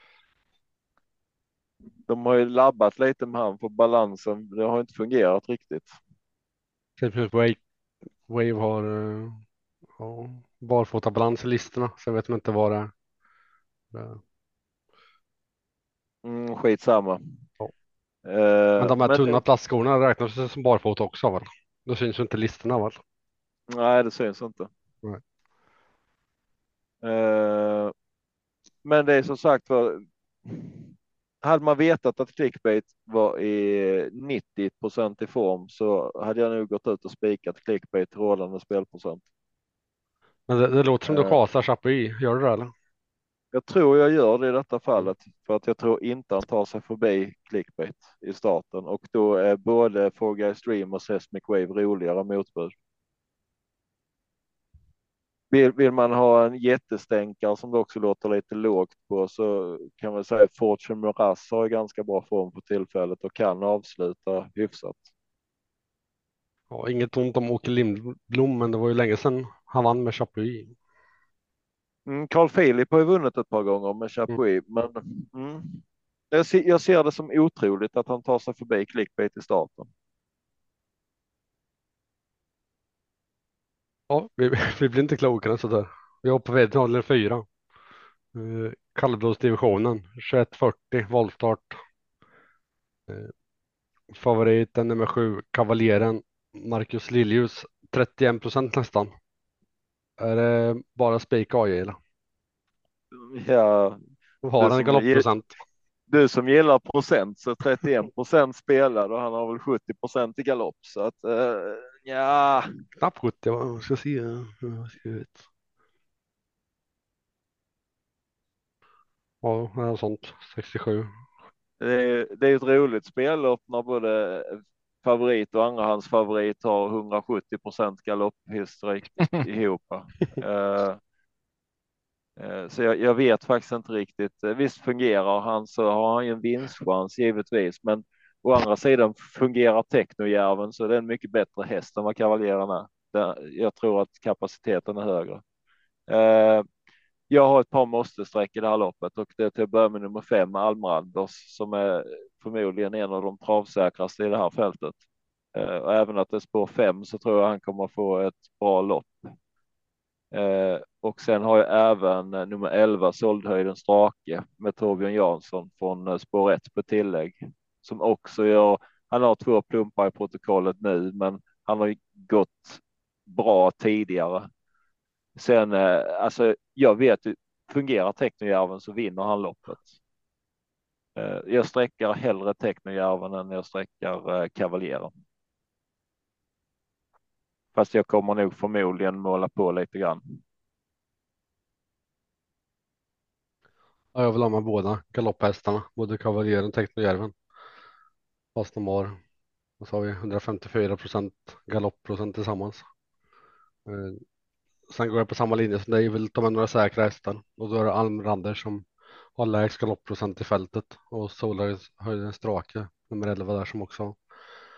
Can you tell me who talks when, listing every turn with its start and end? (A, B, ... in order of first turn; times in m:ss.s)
0:02.1-0:05.9 A
0:07.0-0:07.6 B
0:08.3-0:09.4 B
0:10.0-0:12.9 B
0:13.9-0:14.2 B
0:16.2-0:17.2 A
0:18.2-0:19.4 A
0:18.8-0:23.0 B
0:23.7-0:24.7 A
0:27.0-0:27.9 A
0:28.8-0:30.9 A
0:31.4-0:39.2 A
0:40.5-0:42.7 B
0:41.1-0:41.4 A
0:43.5-0:52.7 A
0:55.5-1:05.1 A
1:06.7-1:10.7 B
1:12.1-1:19.9 A
1:24.1-1:27.4 B
1:28.3-1:31.8 B
1:34.1-1:39.1 B
1:40.2-1:42.0 B
1:43.1-1:44.0 A
1:44.4-1:45.5 B
1:44.6-1:45.3 A
1:46.1-1:52.7 A
1:53.0-1:55.4 B
1:59.4-2:01.1 B
2:01.8-2:11.0 A
2:12.4-2:25.4 A
2:26.1-2:26.6 A
2:27.3-2:35.0 A
2:35.5-2:39.2 A
2:40.3-2:54.5 A
2:55.4-2:59.9 A
3:01.2-3:05.1 A
3:07.8-3:10.4 A
3:14.1-3:17.3 B
3:18.6-3:19.2 B
3:19.8-3:22.8 B
3:23.9-3:24.2 B
3:24.9-3:28.8 B
3:29.4-3:34.2 B